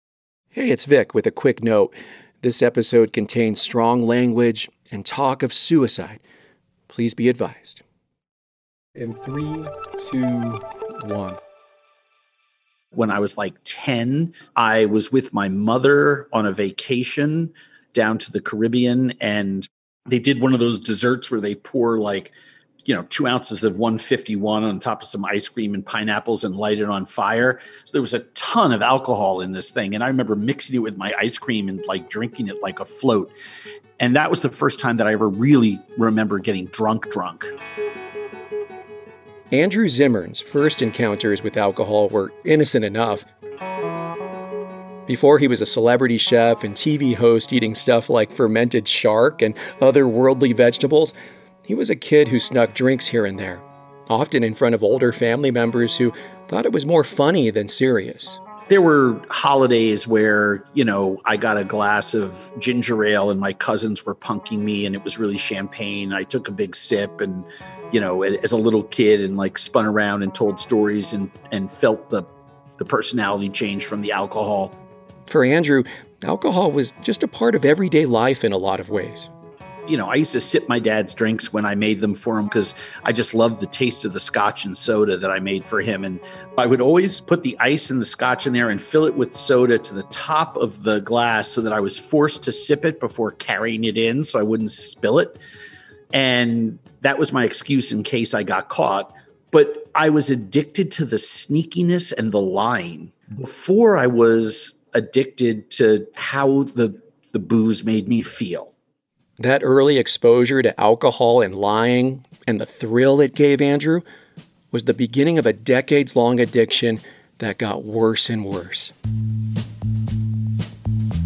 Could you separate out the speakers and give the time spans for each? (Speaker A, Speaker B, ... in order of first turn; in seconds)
Speaker A: 0.5-6.2, 6.9-7.8, 8.9-11.4, 39.5-43.2, 45.1-51.1, 51.6-58.4, 75.3-79.3, 109.4-114.0, 114.7-118.9
Speaker B: 12.9-22.3, 22.9-33.3, 34.0-37.5, 58.7-74.7, 79.9-95.4, 96.1-108.7